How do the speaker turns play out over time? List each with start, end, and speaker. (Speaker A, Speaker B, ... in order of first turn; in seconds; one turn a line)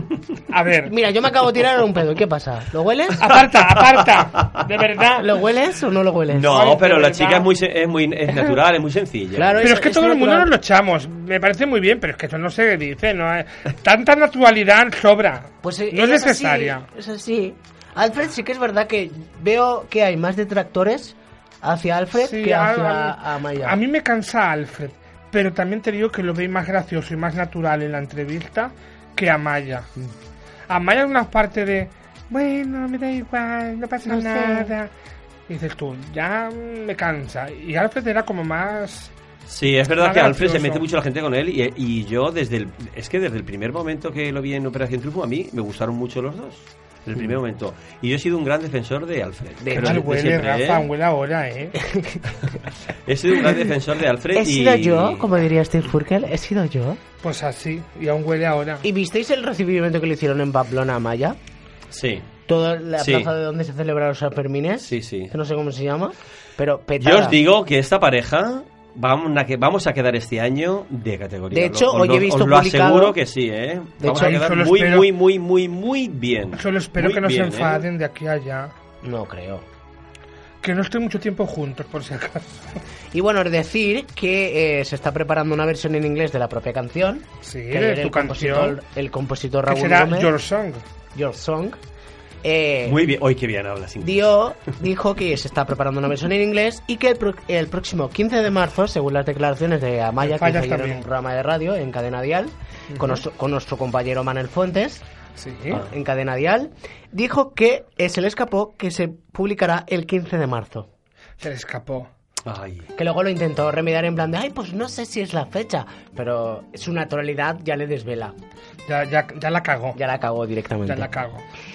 Speaker A: 0.5-0.9
Speaker B: 0.9-3.2
Speaker A: 3.2-5.3
Speaker B: 5.2-6.7
Speaker C: 6.3-9.7
Speaker A: 6.5-7.5
Speaker B: 9.3-10.5
Speaker A: 9.6-16.9
Speaker B: 15.6-23.8
Speaker A: 22.1-29.9
Speaker A: 30.7-34.9
Speaker B: 34.1-34.7
Speaker A: 35.5-39.1
Speaker C: 39.5-50.9
Speaker A: 40.0-40.8
Speaker B: 49.6-50.0
Speaker A: 49.7-51.8
Speaker B: 51.8-52.2
Speaker C: 53.1-55.5
Speaker B: 54.3-57.0
Speaker A: 57.2-58.8
Speaker B: 58.8-61.4
Speaker C: 61.9-62.3
Speaker B: 62.5-67.4
Speaker C: 63.0-63.3
Speaker C: 64.8-65.3
Speaker C: 67.0-77.8
Speaker B: 71.5-73.2
Speaker B: 74.0-74.4
Speaker A: 74.0-75.1
Speaker A: 76.5-78.7
Speaker B: 79.0-79.6
Speaker A: 80.6-82.7
Speaker B: 83.1-90.3
Speaker A: 87.4-88.8
Speaker A: 89.7-90.8
Speaker B: 91.1-91.8
Speaker B: 92.4-93.0
Speaker C: 92.8-94.3
Speaker B: 94.0-105.0
Speaker A: 100.2-101.0
Speaker A: 102.9-103.2
Speaker A: 105.4-105.8
Speaker B: 105.7-110.9
Speaker A: 111.4-112.1
Speaker C: 112.4-112.9
Speaker B: 113.0-118.3
Speaker A: 118.9-120.0
Speaker B: 119.9-121.1
Speaker A: 120.8-121.4